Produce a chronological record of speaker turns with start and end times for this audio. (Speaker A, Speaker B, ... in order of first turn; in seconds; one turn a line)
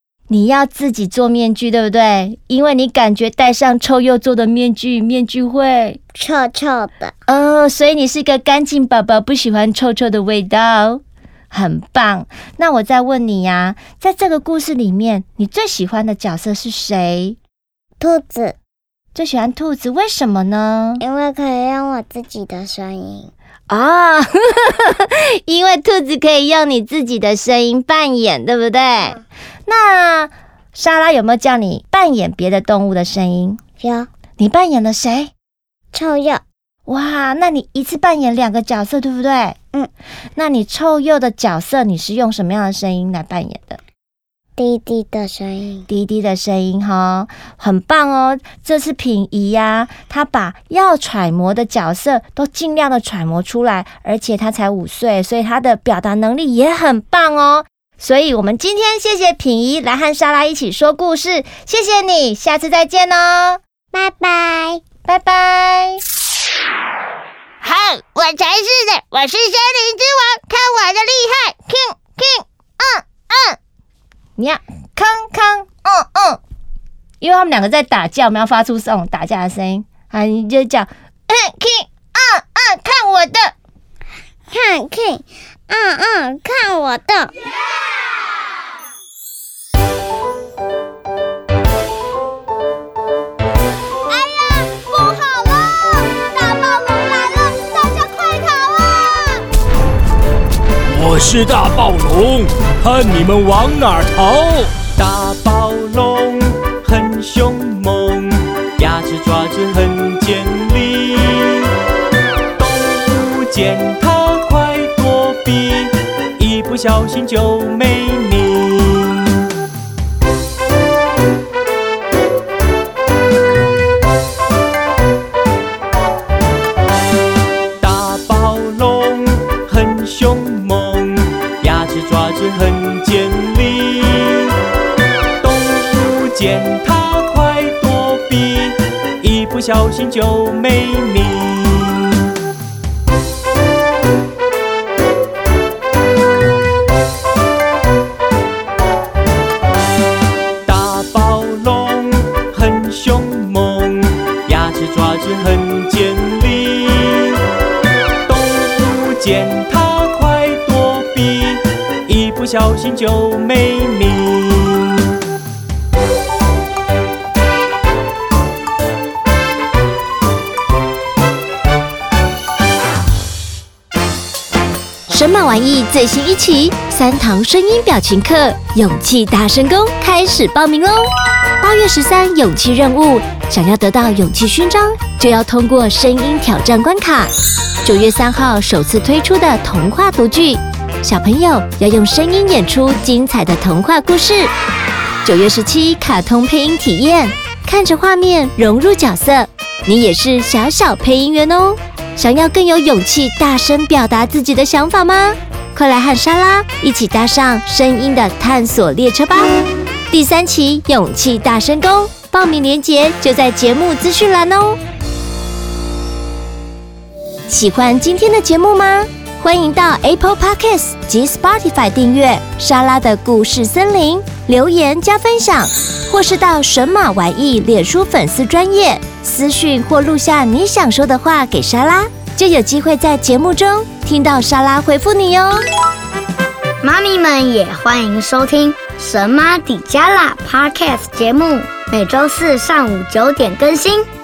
Speaker A: 0.3-6.0
Speaker B: 6.2-7.1
Speaker A: 7.3-17.4
Speaker B: 18.0-18.6
Speaker A: 19.1-21.0
Speaker B: 21.0-23.3
Speaker A: 23.7-33.6
Speaker B: 33.8-34.1
Speaker A: 34.4-35.3
Speaker B: 35.9-36.4
Speaker A: 36.9-39.6
Speaker A: 40.4-43.8
Speaker B: 44.6-45.9
Speaker A: 45.9-63.6
Speaker B: 63.9-64.8
Speaker A: 65.1-66.0
Speaker A: 67.8-68.3
Speaker A: 68.9-69.3
Speaker B: 70.5-70.8
Speaker A: 71.6-72.4
Speaker A: 74.4-76.4
Speaker A: 77.2-83.5
Speaker B: 84.5-87.3
Speaker B: 94.1-99.4
Speaker C: 100.9-104.8
Speaker D: 104.9-111.7
Speaker D: 112.6-119.5
Speaker D: 127.8-134.6
Speaker D: 135.4-142.2
Speaker D: 150.7-157.4
Speaker D: 158.3-165.1
Speaker A: 175.1-181.1
Speaker A: 181.6-187.3
Speaker A: 187.8-194.5
Speaker A: 195.2-209.5
Speaker A: 210.1-214.8
Speaker A: 217.5-235.6
Speaker E: 236.8-244.1